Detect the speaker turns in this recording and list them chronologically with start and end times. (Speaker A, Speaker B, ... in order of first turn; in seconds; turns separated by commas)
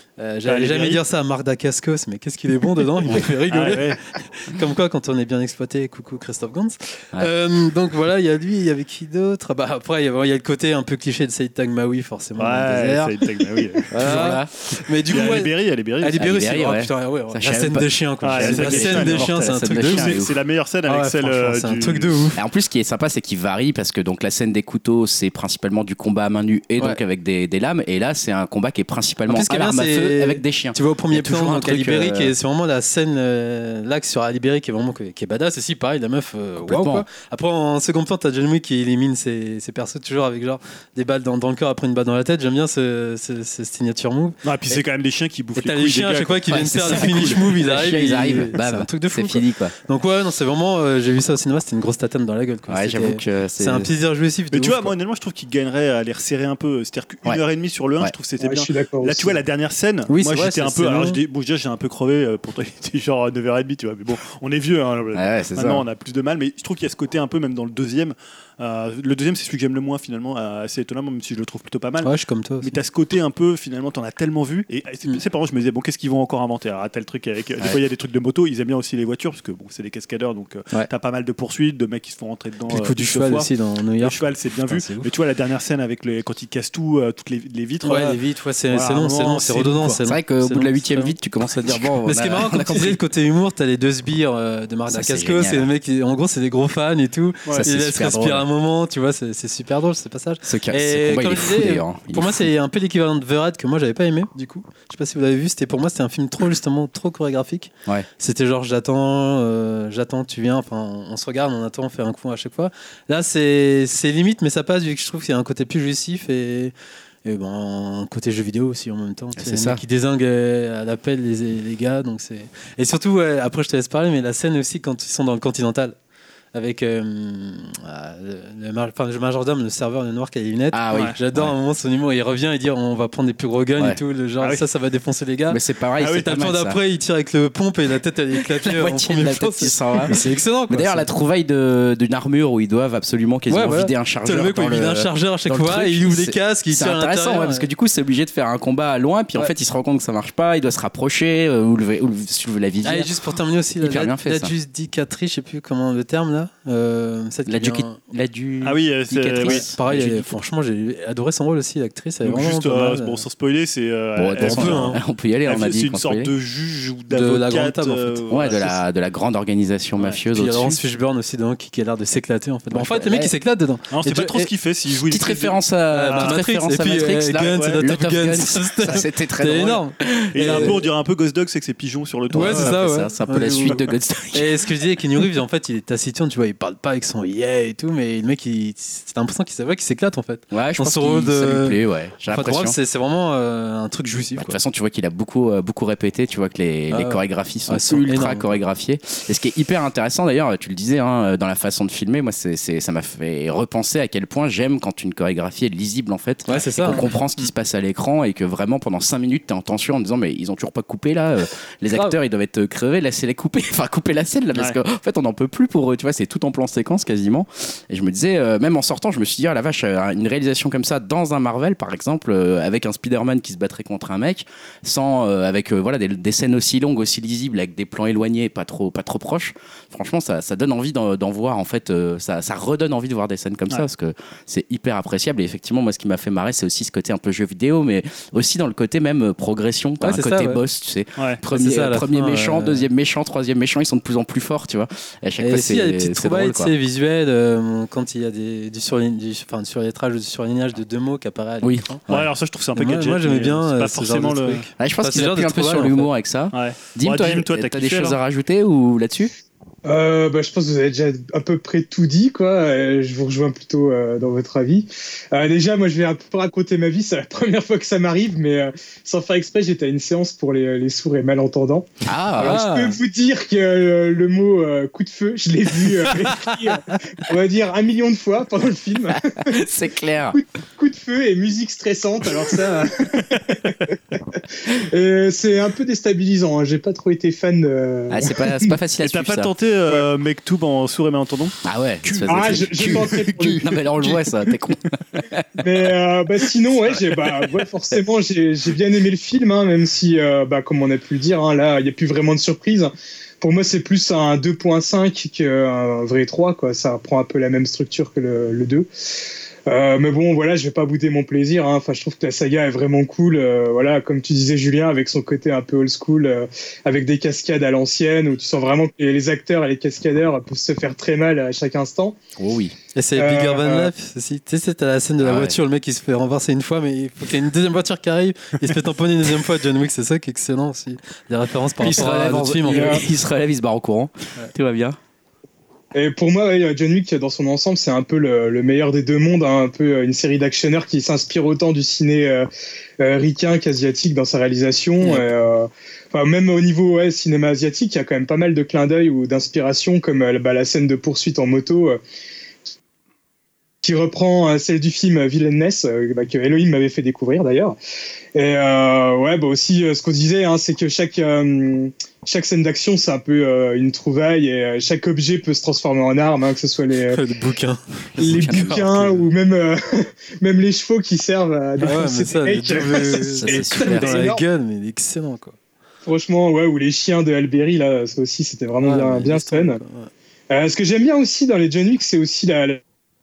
Speaker A: 0.2-13.2, Speaker B: 0.5-1.0, Speaker B: 3.5-4.0, Speaker B: 12.4-14.4, Speaker A: 13.9-20.2, Speaker C: 14.0-14.5, Speaker B: 15.1-16.2, Speaker C: 16.2-20.3, Speaker B: 18.2-22.1, Speaker A: 20.9-22.4, Speaker C: 22.3-32.3, Speaker A: 29.3-44.8, Speaker C: 36.6-37.0, Speaker B: 44.4-47.3, Speaker A: 45.5-54.9, Speaker C: 46.5-49.8, Speaker C: 52.7-53.9, Speaker B: 54.5-72.1, Speaker D: 58.4-59.4, Speaker A: 60.1-61.2, Speaker C: 65.1-65.8, Speaker A: 72.0-72.7, Speaker B: 72.6-83.5, Speaker A: 82.7-85.1, Speaker B: 84.0-90.0, Speaker A: 87.8-91.1, Speaker C: 90.0-93.0, Speaker A: 92.0-126.0, Speaker C: 94.9-95.7, Speaker C: 97.5-98.4, Speaker C: 100.4-102.5, Speaker C: 119.3-119.8, Speaker A: 126.5-141.1, Speaker C: 130.7-131.5, Speaker C: 135.5-136.8, Speaker B: 136.0-136.3, Speaker C: 138.6-153.1, Speaker A: 143.5-147.7, Speaker A: 152.8-158.0, Speaker C: 153.8-154.5, Speaker C: 157.5-159.8, Speaker B: 158.6-160.3, Speaker A: 159.4-163.2, Speaker B: 162.2-168.8, Speaker C: 164.2-166.3, Speaker A: 164.3-165.0, Speaker A: 167.1-168.6, Speaker C: 168.3-170.8, Speaker A: 170.3-174.5, Speaker C: 172.7-173.3, Speaker B: 173.9-175.6, Speaker C: 175.0-180.7, Speaker A: 175.9-180.8, Speaker B: 176.1-176.4, Speaker B: 177.5-177.8, Speaker B: 180.3-182.8, Speaker C: 182.3-184.6, Speaker A: 182.3-183.8, Speaker A: 184.3-194.6, Speaker C: 190.5-192.8, Speaker C: 194.1-246.7, Speaker A: 196.9-198.6, Speaker A: 206.5-207.1, Speaker A: 240.0-240.6, Speaker A: 241.5-242.8, Speaker A: 245.4-252.0, Speaker C: 251.6-252.3, Speaker B: 252.1-254.6, Speaker A: 252.7-256.1, Speaker C: 254.8-259.3, Speaker B: 256.5-258.2, Speaker D: 259.8-271.9, Speaker C: 272.1-272.6, Speaker A: 272.4-273.0, Speaker D: 272.4-279.6, Speaker A: 276.3-277.0, Speaker C: 279.1-280.4, Speaker D: 280.3-288.8, Speaker C: 288.1-289.5, Speaker B: 289.0-294.1, Speaker C: 291.6-295.9, Speaker D: 292.3-293.9, Speaker D: 295.6-308.9, Speaker D: 309.7-322.2, Speaker C: 322.4-322.7, Speaker A: 322.9-333.0, Speaker D: 323.1-323.9, Speaker C: 325.2-325.6, Speaker C: 331.8-335.0, Speaker D: 332.7-333.0, Speaker D: 335.9-342.5, Speaker D: 343.0-352.0, Speaker D: 353.8-357.8, Speaker D: 358.3-367.2, Speaker A: 367.1-369.2, Speaker C: 368.1-369.2, Speaker D: 368.2-374.4, Speaker A: 371.8-375.6, Speaker C: 373.4-374.3, Speaker D: 376.0-379.8, Speaker A: 378.8-380.1, Speaker D: 380.5-382.8